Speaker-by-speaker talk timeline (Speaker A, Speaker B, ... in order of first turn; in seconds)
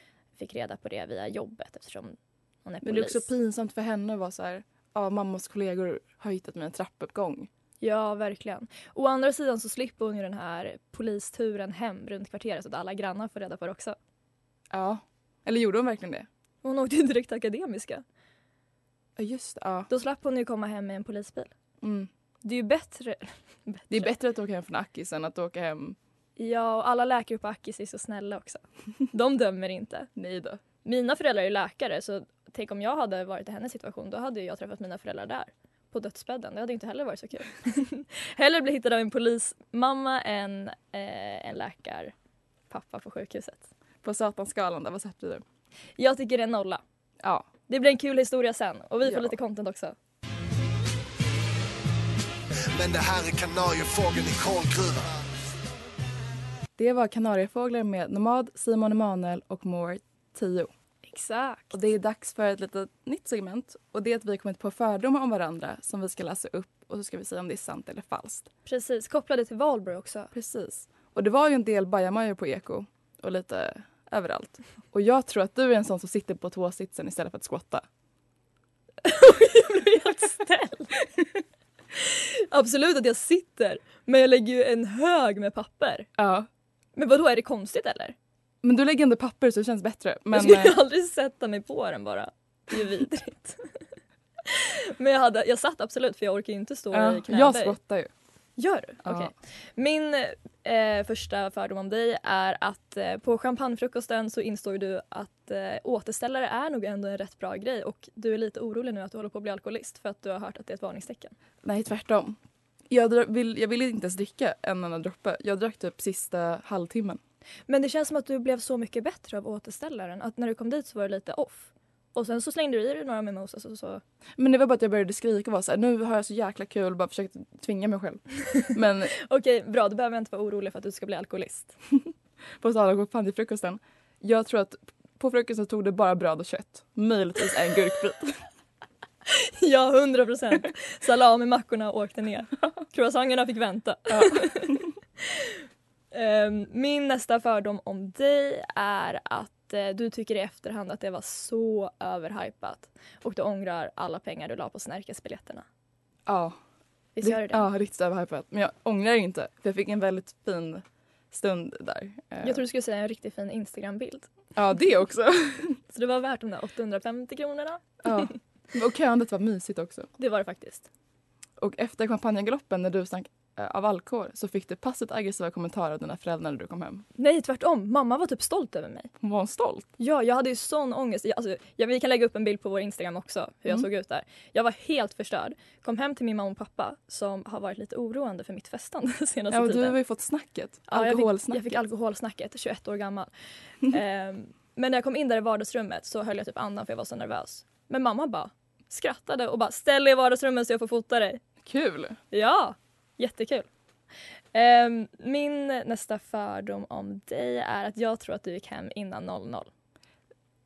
Speaker A: 0.3-3.3, 7.8-14.0, 16.6-18.0, 19.9-21.5, 22.4-24.1, 26.4-30.1, 30.8-42.1, 42.7-43.7, 46.0-46.8, 47.7-49.9, 61.0-61.8, 68.7-70.3, 79.0-81.1, 81.9-86.1, 87.0-88.1, 90.3-93.8, 94.4-97.8, 98.6-111.3, 117.7-124.0, 128.6-131.7, 139.3-145.6, 146.1-155.7, 157.2-157.7, 162.4-164.3, 165.9-168.3, 170.2-170.9, 177.2-179.1, 180.0-190.0, 190.9-193.3, 193.8-201.4, 202.3-203.7, 204.5-209.7
Speaker B: 2.8-7.5, 14.7-16.3, 19.2-19.9, 21.8-22.1, 23.9-26.0, 30.1-30.6, 44.0-45.4, 47.2-47.5, 49.0-49.3, 56.8-60.7, 61.7-68.5, 70.3-77.8, 86.2-86.5, 88.6-90.8, 96.9-98.1, 99.0-99.3, 111.6-112.4, 112.9-117.2, 124.4-129.1, 132.6-138.4, 144.1-144.8, 156.3-156.6, 157.2-162.6, 164.5-165.8, 168.0-170.1, 171.6-177.1, 179.2-179.9, 189.5-191.8, 201.6-202.2
Speaker C: 52.7-55.2